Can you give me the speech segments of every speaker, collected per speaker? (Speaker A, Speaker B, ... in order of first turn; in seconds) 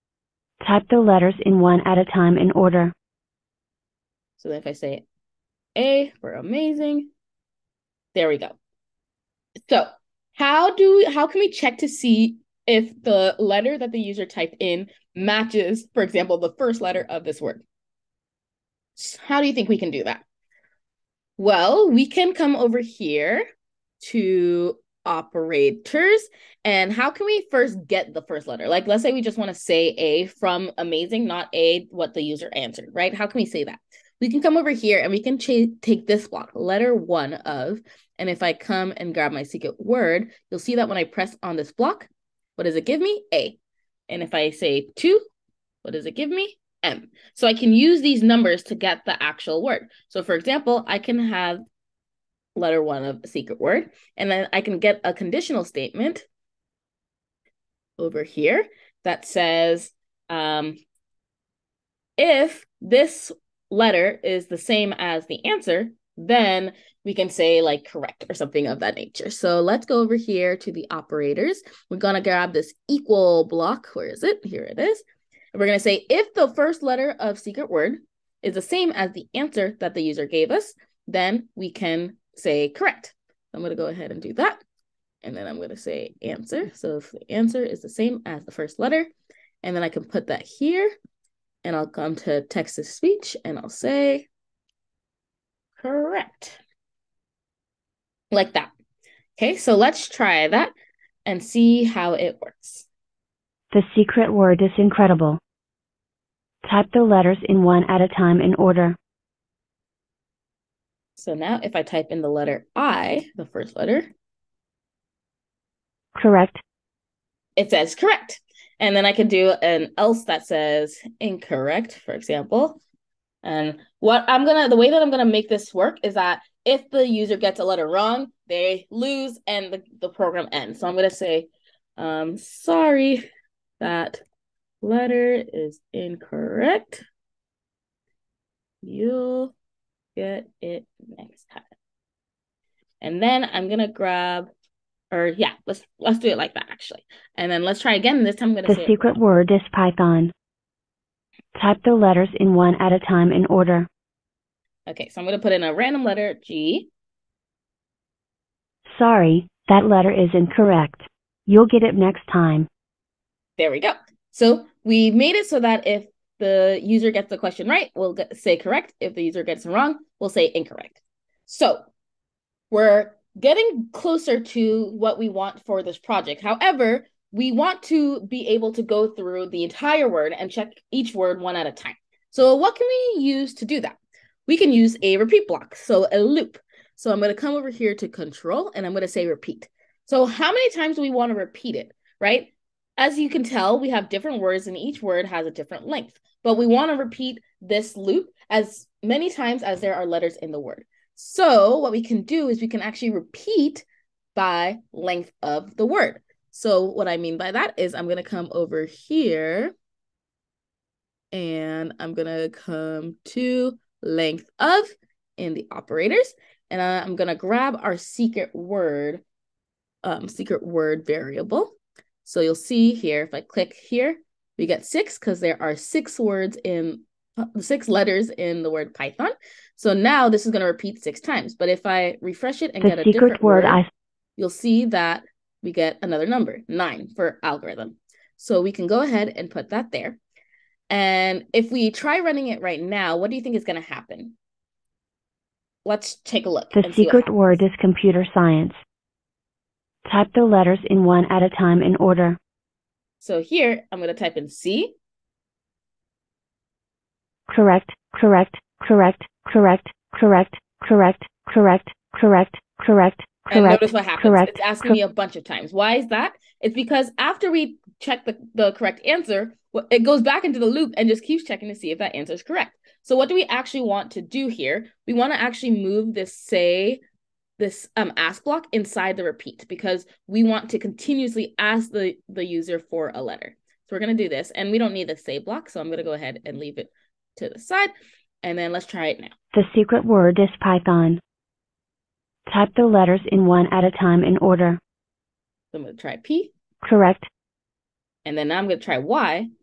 Speaker A: 0.6-2.9, 103.7-105.4, 106.6-109.0, 116.1-116.6, 148.6-150.3, 151.5-153.9, 158.9-162.7, 232.8-233.9, 246.7-248.8, 250.1-252.4, 257.5-265.0, 289.5-291.2, 292.5-294.8, 296.8-297.3
Speaker B: 4.4-5.0, 5.8-7.1, 8.1-8.6, 9.7-17.6, 19.0-20.2, 21.4-23.4, 24.0-43.6, 44.1-45.2, 45.8-51.6, 52.5-56.2, 58.0-60.8, 62.2-84.6, 85.2-89.1, 89.6-90.9, 91.6-94.3, 95.8-96.6, 98.3-98.7, 99.4-100.7, 101.2-102.9, 111.2-114.1, 117.6-122.8, 123.4-133.2, 133.8-134.2, 134.8-137.0, 138.8-139.5, 140.2-141.7, 143.0-144.5, 145.1-149.2, 154.9-156.9, 163.6-171.9, 172.7-209.7, 211.3-219.2, 220.0-233.8, 234.4-240.2, 240.9-244.3, 245.8-247.6, 253.2-254.9, 263.5-277.0, 277.6-289.3, 295.7-296.5, 298.2-299.5